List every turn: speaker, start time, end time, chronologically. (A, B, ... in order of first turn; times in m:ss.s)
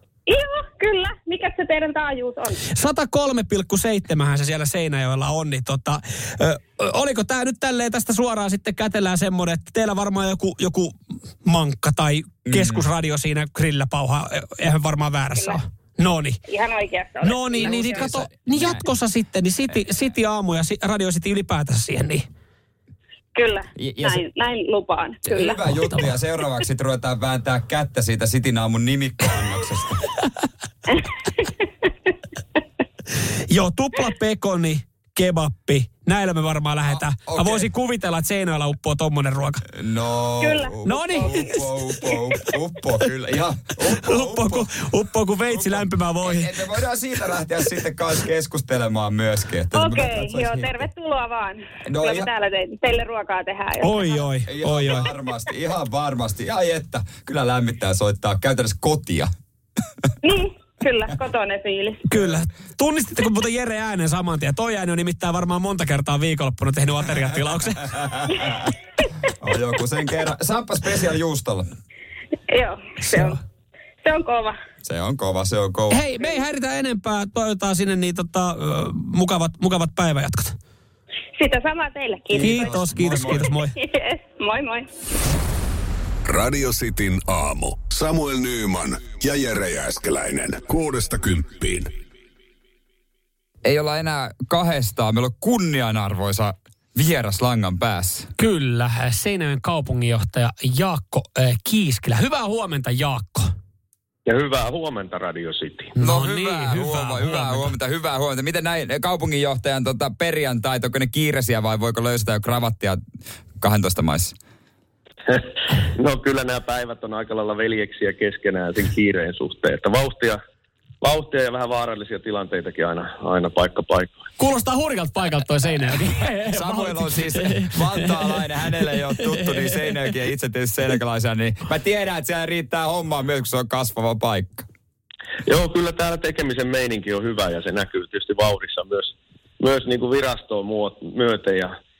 0:00.3-0:02.6 A
0:02.7-0:16.4 B
0:12.4-0:12.9 C
0:15.3-0:15.6 A
0:16.4-0:18.1 A
0:17.2-0:22.2 B
0:17.6-0:18.9 C
0:23.3-0:25.6 A
0:23.8-0:24.2 C
0:25.2-0:30.0 C
0:33.5-0:39.6 B
0:36.9-0:37.7 C
0:39.7-0:44.7 C
0:40.4-0:41.5 A
0:40.8-0:41.6 B
0:43.9-0:46.6 B
0:45.5-0:50.9 C
0:49.7-0:54.1 A
0:51.8-0:52.3 C
0:53.8-0:55.1 B
0:54.4-0:59.3 C
1:00.2-1:02.0 A
1:02.0-1:07.9 B
1:08.0-1:08.7 C
1:09.4-1:11.6 C
1:12.5-1:13.4 A
1:13.0-1:13.4 B
1:14.0-1:14.6 A
1:14.8-1:16.0 C
1:15.9-1:20.6 B
1:21.4-1:24.9 A
1:22.3-1:23.5 C
1:22.4-1:23.7 B
1:26.3-1:31.9 D
1:33.6-1:38.3 C
1:38.4-1:43.5 B
1:44.2-1:45.9 E
1:45.9-1:47.7 B
1:46.0-1:53.0 C
1:53.6-1:54.3 C
1:55.2-2:00.4 E
2:01.0-2:04.3 E
2:04.4-2:08.4 B
2:06.5-2:14.6 C
2:09.2-2:10.0 B
2:15.4-2:21.8 E